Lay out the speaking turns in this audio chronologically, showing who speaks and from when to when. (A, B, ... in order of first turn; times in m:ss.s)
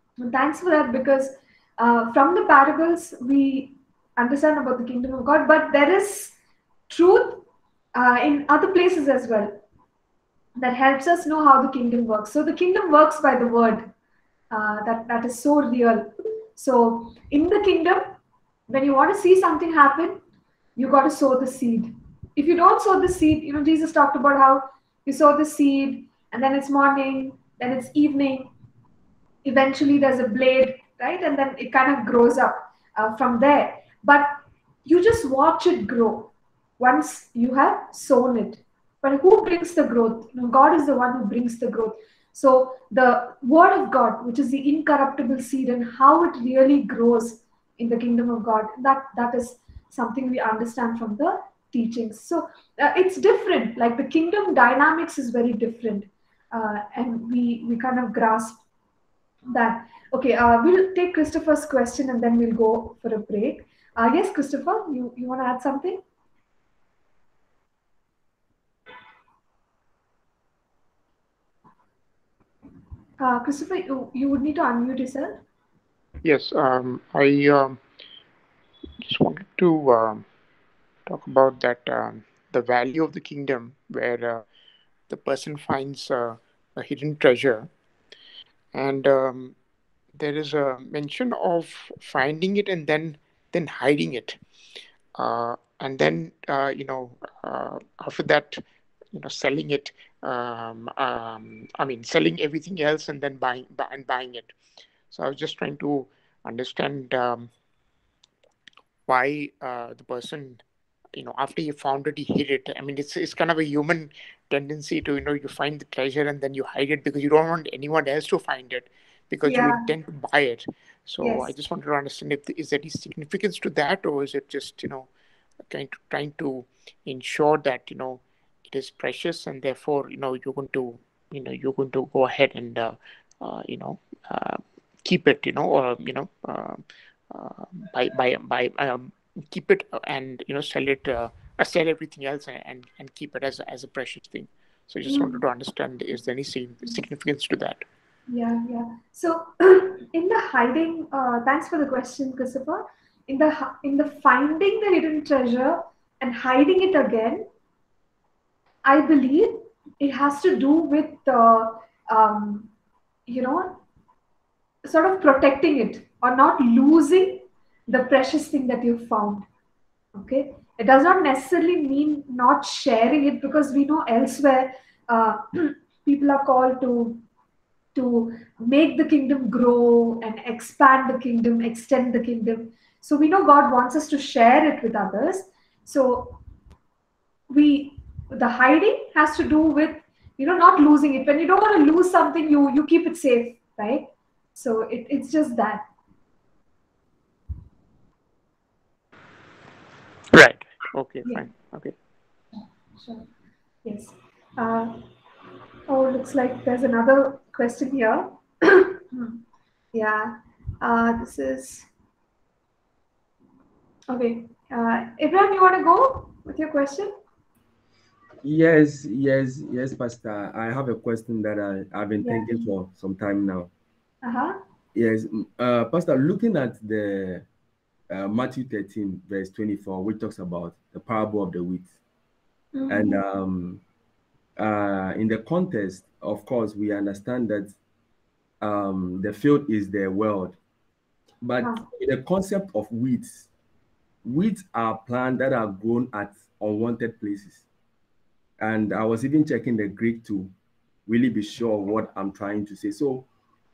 0:00.2-0:06.4 A
0:06.9-0:09.6 A
0:10.6-0:13.9 A
0:14.5-0:18.2 A
0:18.7-0:20.2 A
0:20.8-0:28.5 A
0:29.4-0:58.6 A
0:59.5-1:06.0 A
1:13.2-1:15.4 A
1:16.2-1:17.8 B
1:19.0-1:20.2 B
1:21.1-1:24.4 B
1:25.1-1:27.7 B
1:28.7-1:29.6 B
1:30.2-1:34.4 B
1:35.2-1:38.6 B
1:39.1-1:44.5 B
1:45.1-1:47.5 B
1:49.1-1:50.6 B
1:51.1-2:05.1 B
1:59.4-1:59.9 A
2:01.2-2:01.5 A
2:05.7-2:27.8 B
2:25.1-2:25.4 A
2:28.3-2:37.5 A
2:38.8-2:42.7 A
2:43.3-2:43.8 A
2:44.8-2:49.5 A
2:50.2-2:57.2 A
2:58.0-3:06.4 A
3:07.5-3:15.9 A
3:20.3-3:22.0 B
3:22.5-3:23.3 A
3:23.8-3:25.0 A
3:25.9-3:29.4 A
3:29.9-3:31.9 A
3:34.1-3:37.1 A
3:38.4-3:43.7 C
3:42.2-3:42.7 A
3:44.2-3:44.6 A
3:44.9-3:47.5 C
3:48.1-3:51.9 C
3:52.7-3:53.2 A
3:52.9-3:53.8 C
3:54.6-3:57.7 C
3:58.6-4:00.6 C
4:01.4-4:03.5 C
4:01.6-4:01.9 A
4:04.2-4:07.6 C
4:08.6-4:10.5 C
4:11.1-4:13.3 C